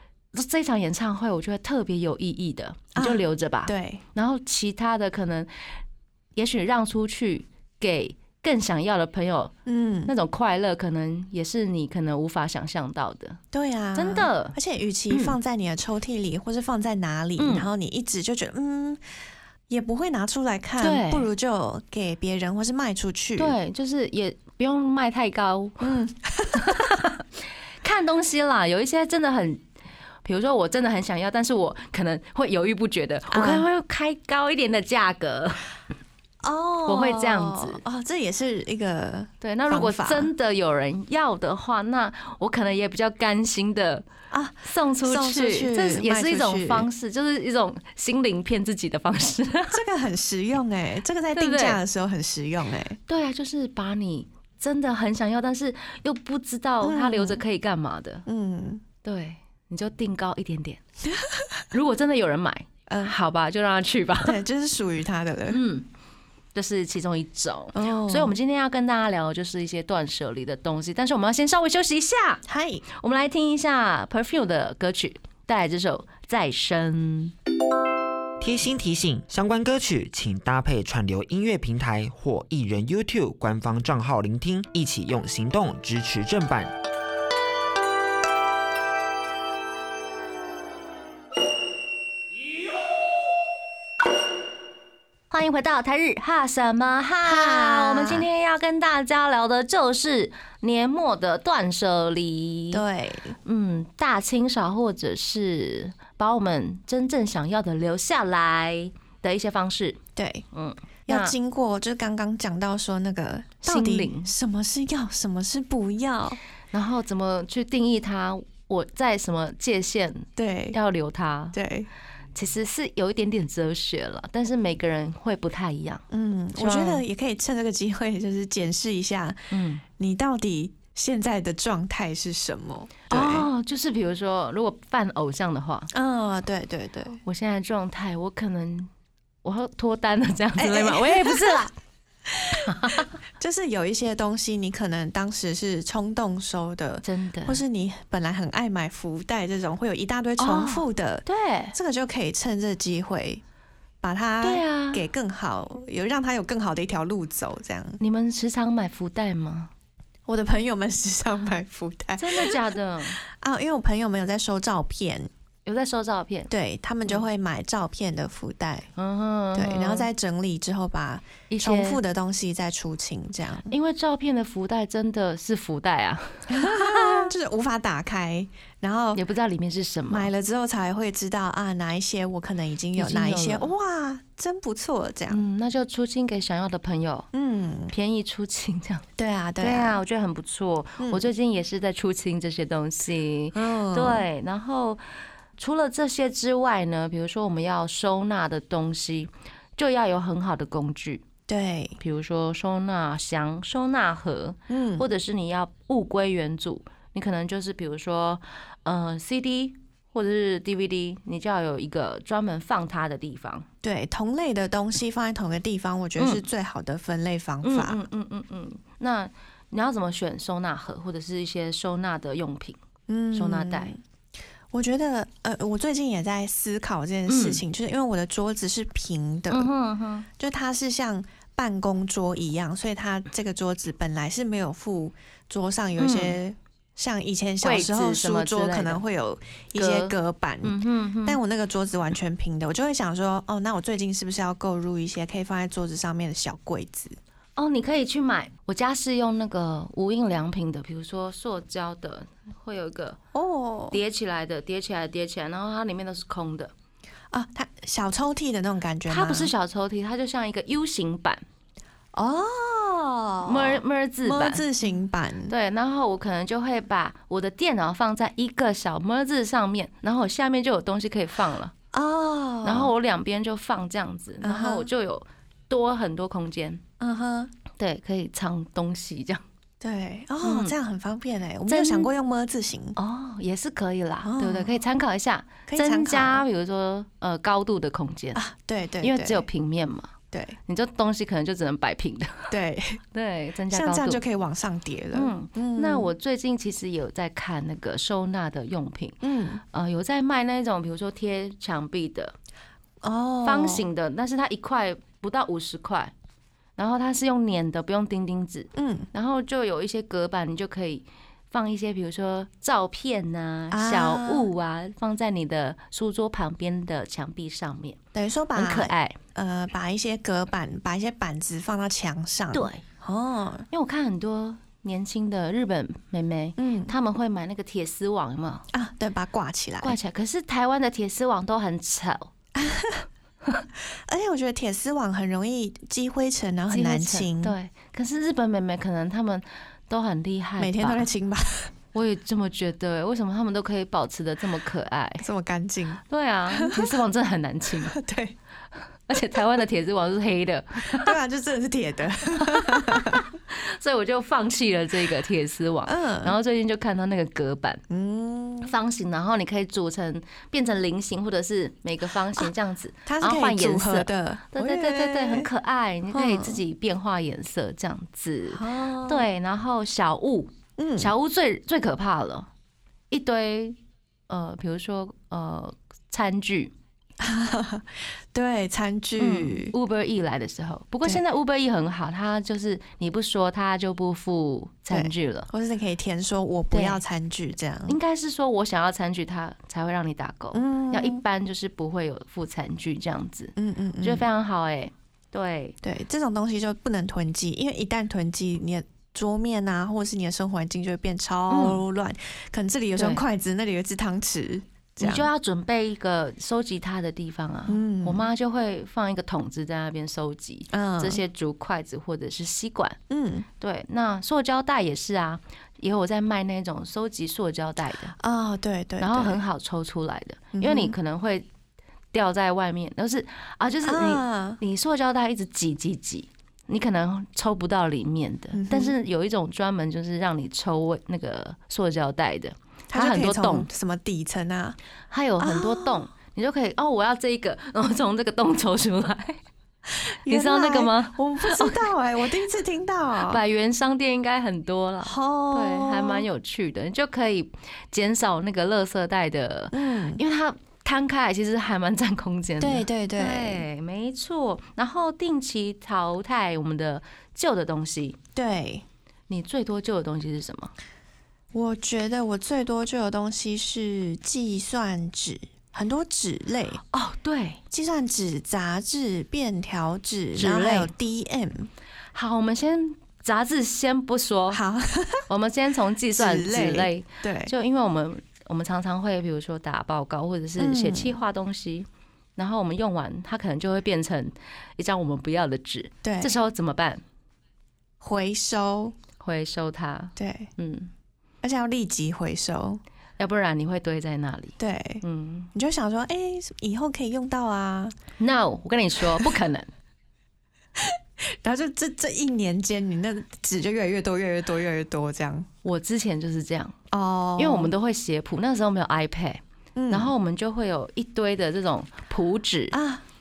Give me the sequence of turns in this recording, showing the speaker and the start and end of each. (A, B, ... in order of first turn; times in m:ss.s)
0:00.3-0:05.5 A
0:02.9-0:04.0 B
0:06.4-0:09.5 A
0:09.6-0:10.1 B
0:10.0-0:13.4 A
0:13.5-0:19.0 B
0:13.9-0:14.6 A
0:15.1-0:15.4 A
0:17.4-0:17.6 A
0:19.7-0:23.6 B
0:20.8-0:21.3 A
0:23.4-0:26.0 A
0:25.8-0:27.0 B
0:26.5-0:27.2 A
0:27.8-0:29.6 A
0:30.2-0:35.6 A
0:33.3-0:33.6 B
0:36.4-0:40.3 B
0:36.9-0:37.8 A
0:39.4-0:44.0 A
0:44.3-0:46.9 B
0:44.6-0:49.8 A
0:49.7-0:53.0 B
0:51.3-0:51.8 A
0:53.1-0:58.2 A
0:56.8-0:57.4 B
0:58.2-0:58.8 B
0:59.0-1:00.8 A
1:01.2-1:01.6 B
1:01.7-1:04.4 A
1:02.9-1:03.1 B
1:04.2-1:05.6 B
1:05.5-1:05.9 A
1:06.5-1:17.3 A
1:07.7-1:08.4 B
1:12.4-1:12.8 B
1:18.4-1:26.7 C
1:35.3-1:42.8 A
1:37.2-1:38.3 B
1:42.7-1:43.4 B
1:43.4-1:50.0 A
1:50.2-1:50.4 B
1:50.5-1:51.3 A
1:51.1-1:56.4 B
1:53.6-1:54.3 A
1:56.7-2:01.6 A
2:00.4-2:00.8 B
2:01.5-2:01.9 B
2:02.3-2:06.0 A
2:06.1-2:13.5 B
2:06.5-2:07.0 A
2:09.5-2:09.8 A
2:13.1-2:15.9 A
2:15.9-2:17.2 B
2:17.2-2:18.9 A
2:19.4-2:21.7 A
2:20.6-2:21.7 B
2:22.2-2:33.4 B
2:22.6-2:23.1 A
2:27.0-2:27.6 A
2:30.4-2:31.7 A
2:34.0-2:38.0 B
2:34.4-2:35.0 A
2:38.0-2:39.7 A
2:40.2-2:42.6 B
2:42.2-2:43.2 A
2:43.2-2:45.3 B
2:45.6-2:46.5 A
2:46.5-2:48.9 B
2:49.0-2:50.1 A
2:49.5-2:53.7 B
2:51.5-2:52.0 A
2:53.7-2:57.3 A
2:56.5-2:59.2 B
2:59.1-3:00.3 A
3:00.1-3:05.4 B
3:03.0-3:03.7 A
3:05.3-3:07.3 A
3:07.3-3:07.9 B
3:07.9-3:09.0 A
3:09.2-3:10.0 B
3:09.6-3:15.0 A
3:11.0-3:11.3 B
3:13.5-3:14.2 B
3:15.6-3:21.2 A
3:21.5-3:22.0 B
3:22.0-3:33.6 A
3:24.7-3:25.0 B
3:33.8-3:38.0 B
3:36.2-3:36.4 A
3:37.6-3:42.8 A
3:43.1-3:44.0 B
3:43.3-3:43.9 A
3:44.7-3:49.7 B
3:47.3-3:47.6 A
3:49.5-3:50.3 A
3:50.4-4:07.2 B
3:56.0-3:56.4 A
3:57.6-3:59.0 A
3:59.7-4:01.4 A
4:07.6-4:13.2 A
4:13.3-4:14.0 B
4:13.9-4:16.7 A
4:17.3-4:19.5 B
4:19.1-4:21.4 A
4:22.1-4:25.5 B
4:23.4-4:24.6 A
4:25.5-4:31.7 A
4:31.9-4:32.9 B
4:32.6-4:36.8 A
4:34.4-4:34.9 B
4:37.0-4:37.5 B
4:37.8-4:39.4 A
4:39.8-4:43.0 B
4:40.4-4:40.7 A
4:41.7-4:42.1 A
4:43.0-4:48.4 A
4:44.2-4:44.8 B
4:45.7-4:46.4 B
4:48.3-4:49.4 B
4:49.0-4:50.1 A
4:50.3-4:50.6 B
4:50.7-4:52.5 A
4:52.5-4:53.0 B
4:53.1-4:54.2 A
4:53.7-4:56.1 B
4:55.1-4:59.2 A
4:59.2-4:59.6 B
4:59.7-5:02.3 A
5:03.0-5:03.9 B
5:03.4-5:06.1 A
5:06.8-5:18.0 A
5:08.7-5:09.1 B
5:13.7-5:14.5 B
5:18.1-5:23.7 B
5:18.5-5:19.2 A
5:22.5-5:22.8 A
5:23.7-5:28.7 A
5:26.6-5:26.9 B
5:28.7-5:30.0 B
5:29.8-5:32.3 A
5:32.6-5:33.0 B
5:34.1-5:37.6 B
5:36.7-5:41.1 A
5:40.6-5:41.7 B
5:41.9-5:45.2 A
5:45.2-5:46.9 B
5:46.1-5:48.0 A
5:47.8-5:48.4 B
5:49.1-5:51.2 A
5:50.9-5:53.2 B
5:52.4-5:57.8 A
5:55.8-5:56.4 B
5:57.9-5:58.7 B
5:58.6-6:12.5 A
6:03.0-6:05.5 B
6:06.1-6:06.6 B
6:08.5-6:09.2 B
6:10.8-6:11.1 B
6:13.1-6:13.8 A
6:14.3-6:16.7 A
6:17.2-6:19.7 B
6:19.2-6:25.5 A
6:24.9-6:28.0 B
6:26.7-6:27.0 A
6:27.9-6:35.8 A
6:30.5-6:31.2 B
6:33.6-6:34.3 B
6:35.8-6:45.3 B
6:41.5-6:41.8 A
6:43.0-6:43.2 A
6:45.0-6:53.0 A
6:47.7-6:48.2 B
6:50.7-6:51.2 B
6:53.1-6:53.5 B
6:53.6-6:58.1 A
6:58.1-6:59.4 B
6:59.0-7:01.5 A
7:00.5-7:01.0 B
7:02.1-7:13.7 A
7:03.8-7:04.6 B
7:08.5-7:08.9 B
7:12.9-7:14.8 B
7:15.1-7:19.4 A
7:15.4-7:16.1 B
7:20.2-7:23.4 B
7:20.3-7:21.8 A
7:23.2-7:38.2 A
7:25.0-7:26.2 B
7:29.7-7:30.2 B
7:32.6-7:33.6 B
7:38.4-7:38.8 B
7:39.3-7:40.7 A
7:41.5-7:46.8 B
7:46.9-7:47.6 A
7:47.7-7:51.7 B
7:50.4-7:50.9 A
7:52.1-7:54.6 A
7:54.5-7:55.2 B
7:55.3-8:07.0 A
7:56.1-7:57.5 B
8:00.6-8:01.2 B
8:06.0-8:06.3 B
8:08.0-8:08.9 B
8:09.2-8:10.9 A
8:10.2-8:10.5 B
8:11.4-8:12.8 B
8:13.2-8:15.5 A
8:14.6-8:18.0 B
8:18.2-8:19.7 A
8:20.8-8:25.5 B
8:25.6-8:26.8 A
8:26.9-8:27.7 B
8:27.4-8:32.8 A
8:29.8-8:30.1 B
8:32.7-8:33.0 B